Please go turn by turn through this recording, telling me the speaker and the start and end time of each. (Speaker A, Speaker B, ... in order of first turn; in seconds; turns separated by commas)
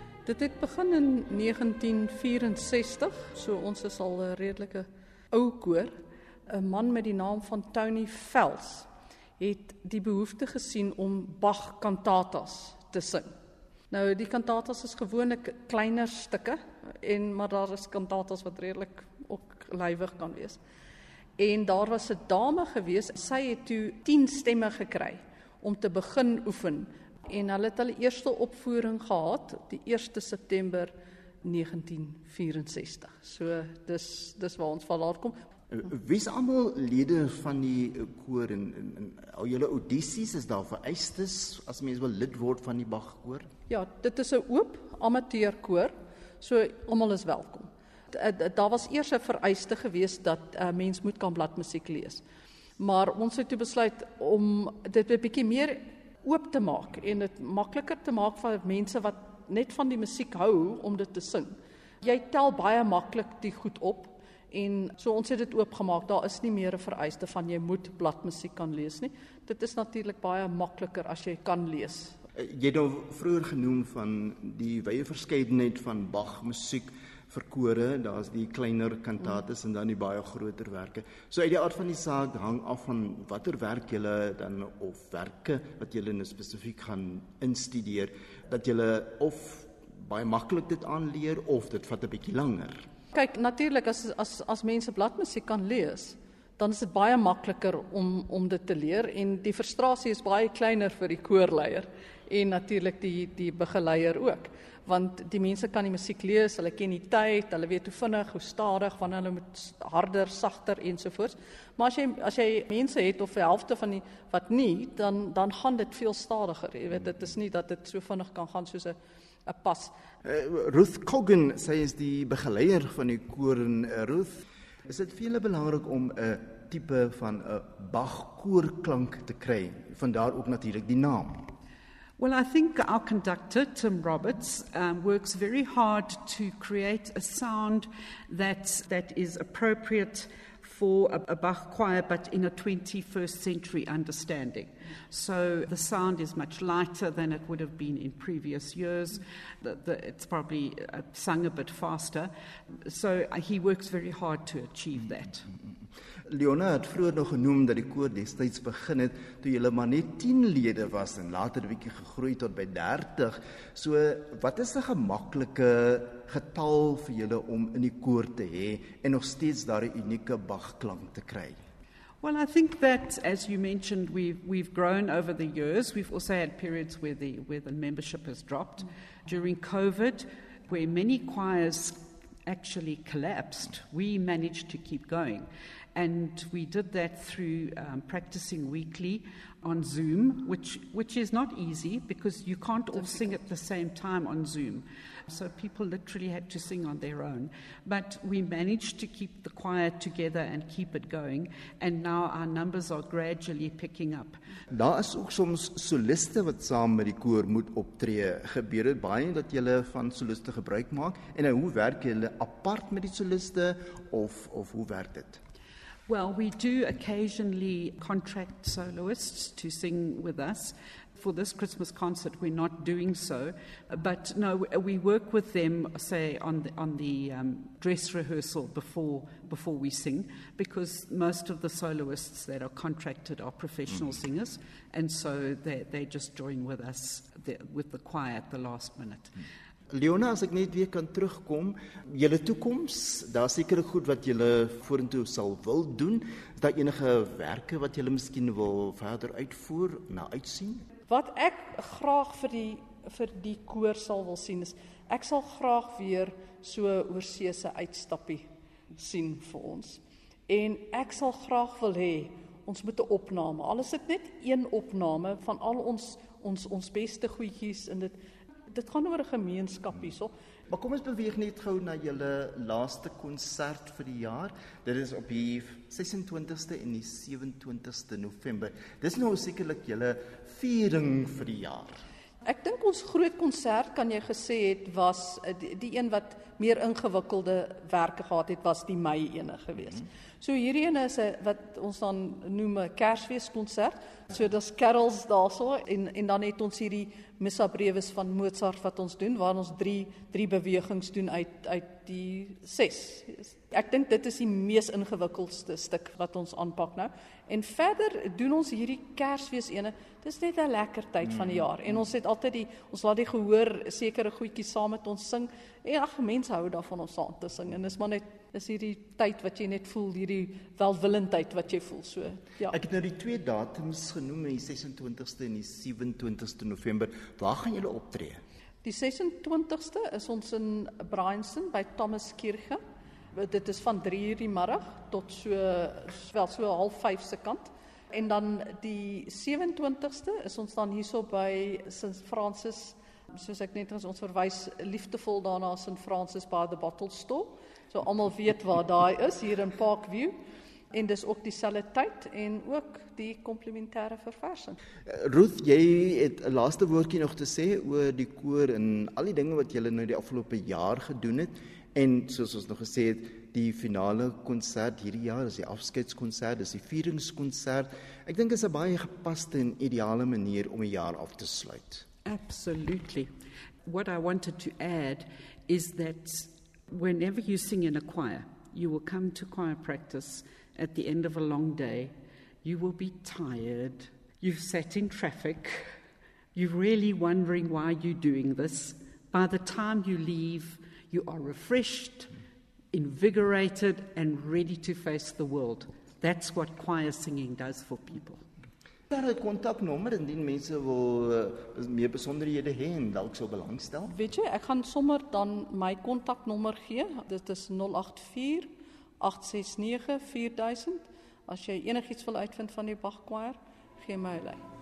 Speaker A: 0.3-5.9, Speaker A: 6.5-8.9, Speaker A: 9.4-13.3, Speaker A: 13.9-20.6, Speaker A: 21.4-30.9, Speaker A: 31.4-35.3, Speaker B: 35.7-43.5, Speaker A: 43.7-52.2, Speaker A: 52.8-72.2, Speaker B: 72.4-92.9, Speaker A: 93.1-119.0, Speaker A: 119.5-119.9, Speaker B: 120.2-131.5, Speaker C: 132.2-152.3, Speaker C: 152.8-155.5, Speaker B: 156.3-171.6, Speaker C: 172.2-204.4, Speaker B: 204.7-215.4, Speaker C: 216.1-239.4, Speaker B: 239.9-250.8, Speaker A: 251.1-258.5, Speaker A: 259.0-268.1, Speaker A: 268.7-270.3, Speaker B: 270.7-282.0, Speaker A: 282.4-322.7, Speaker B: 322.7-328.4, Speaker A: 328.8-332.8, Speaker A: 333.3-350.3, Speaker A: 350.9-354.8, Speaker B: 355.1-372.1, Speaker C: 372.2-373.3, Speaker C: 373.9-385.9, Speaker C: 386.5-392.3, Speaker C: 392.9-398.4, Speaker B: 399.1-404.1, Speaker A: 404.1-414.6